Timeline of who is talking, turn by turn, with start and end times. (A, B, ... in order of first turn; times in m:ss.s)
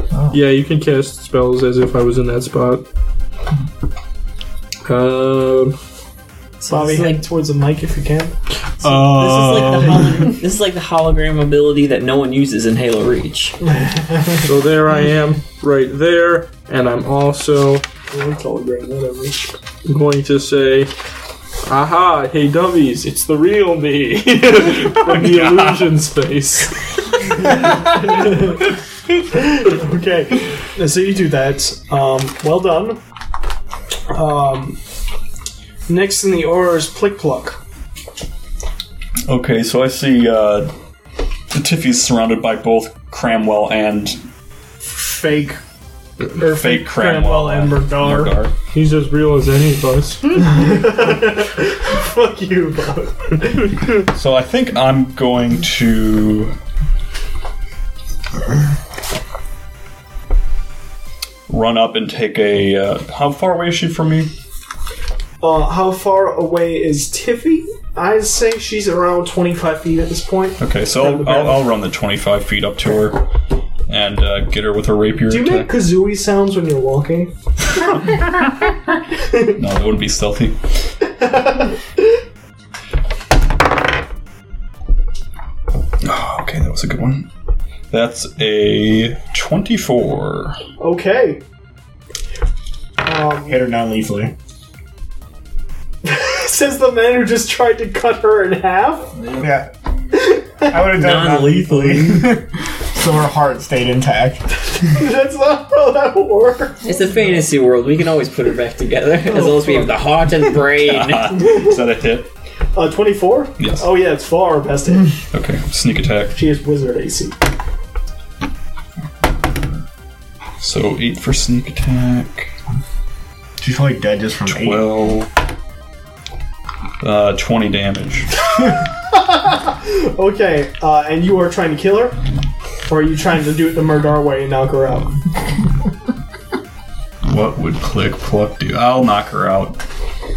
0:00.3-0:02.8 A
0:04.9-0:05.7 A
0:05.1-0:05.7 B
0:06.6-0:07.2 B
0:06.7-0:08.4 C
0:08.8-0:10.3 D
0:08.8-0:13.6 B
0:13.7-0:14.4 C
0:14.4-0:17.8 A
0:18.1-0:19.5 C
0:19.8-0:20.9 A
0:21.7-0:27.5 A
0:25.0-0:26.0 D
0:27.8-0:28.6 C
0:29.3-0:33.0 C
0:34.1-0:34.8 C
0:35.9-0:37.6 C
0:39.3-0:40.7 D
0:41.5-0:44.2 D
0:44.9-0:45.6 C
0:46.3-0:48.4 C
0:46.4-0:48.5 D
0:48.7-0:50.3 A
0:50.4-0:53.8 C
0:54.1-0:56.6 D
1:01.5-1:04.3 D
1:05.4-1:11.6 C
1:10.6-1:13.2 D
1:13.9-1:15.7 D
1:15.3-1:17.3 C
1:19.6-1:20.6 D
1:21.2-1:21.8 C
1:26.0-1:27.3 D
1:27.9-1:30.6 D
1:30.8-1:31.4 C
1:33.0-1:33.6 C
1:33.5-1:34.3 E
1:36.0-1:39.1 C
1:39.4-1:39.7 E
1:40.1-1:40.8 C
1:40.7-1:44.5 E
1:40.9-1:42.3 B
1:44.8-1:46.9 C
1:46.8-1:51.5 B
1:49.3-1:49.9 C
1:50.8-1:52.3 D
1:52.8-1:55.1 C
1:53.6-1:53.9 D
1:55.3-1:56.4 D
1:56.3-1:57.4 C
2:00.6-2:02.5 D
2:03.6-2:04.9 E
2:04.5-2:05.3 D
2:07.0-2:08.5 D
2:09.1-2:12.2 C
2:12.9-2:15.2 C
2:17.2-2:19.8 D